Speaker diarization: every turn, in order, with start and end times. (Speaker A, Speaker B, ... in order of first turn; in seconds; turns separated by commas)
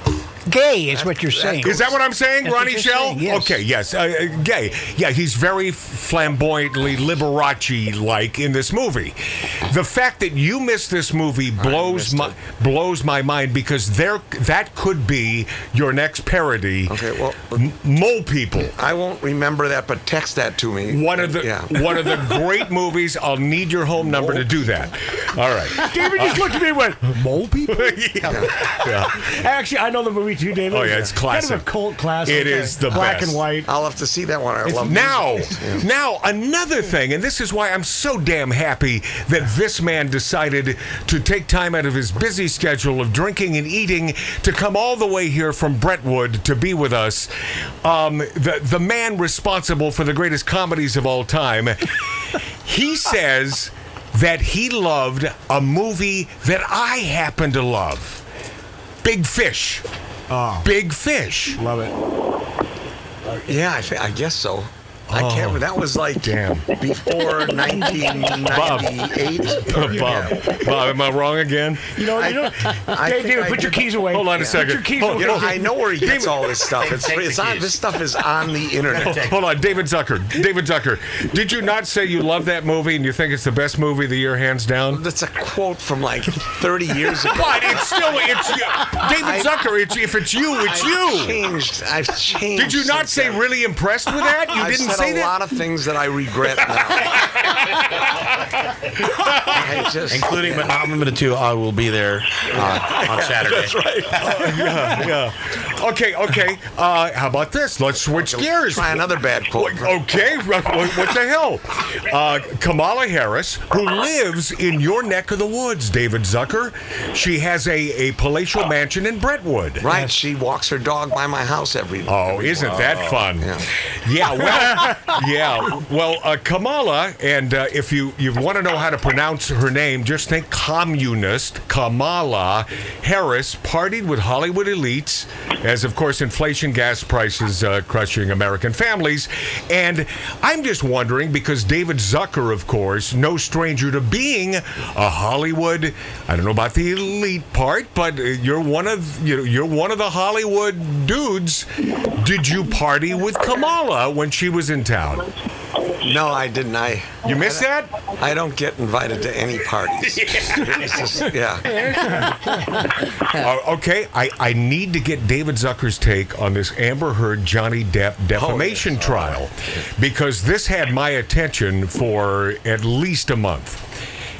Speaker A: 0.5-1.9, Speaker B: 0.9-2.0, Speaker C: 1.6-17.0, Speaker A: 2.4-3.6, Speaker B: 11.6-12.4, Speaker B: 16.9-17.7, Speaker C: 17.5-18.7, Speaker B: 18.7-21.9, Speaker C: 20.9-26.5, Speaker B: 24.0-24.7, Speaker D: 25.7-33.7, Speaker C: 27.7-29.3, Speaker B: 28.2-28.6, Speaker C: 30.7-33.5, Speaker B: 33.6-35.8, Speaker D: 34.6-34.9, Speaker C: 34.8-47.3, Speaker C: 47.8-58.2, Speaker C: 59.0-59.8, Speaker D: 60.3-60.6, Speaker C: 60.6-61.6, Speaker D: 61.5-61.9, Speaker B: 63.4-70.5, Speaker C: 65.1-66.7, Speaker C: 68.4-69.0, Speaker C: 69.6-71.9, Speaker D: 71.9-75.7, Speaker B: 72.0-79.3, Speaker C: 74.1-76.6, Speaker E: 76.7-77.8, Speaker E: 78.7-79.4, Speaker C: 78.9-85.0, Speaker B: 84.9-87.8, Speaker C: 87.3-91.4, Speaker B: 89.1-89.5, Speaker B: 90.6-93.4, Speaker C: 92.5-95.4, Speaker B: 94.5-97.1, Speaker C: 99.2-99.6, Speaker B: 99.5-100.8, Speaker E: 100.1-103.8, Speaker B: 102.5-104.6, Speaker C: 104.2-119.9, Speaker B: 108.1-110.0, Speaker B: 119.8-123.7, Speaker A: 119.9-120.2, Speaker C: 122.0-155.3, Speaker E: 122.8-123.3, Speaker B: 156.0-157.7, Speaker C: 157.2-157.9, Speaker B: 158.2-161.8, Speaker C: 163.3-173.8, Speaker B: 168.3-169.4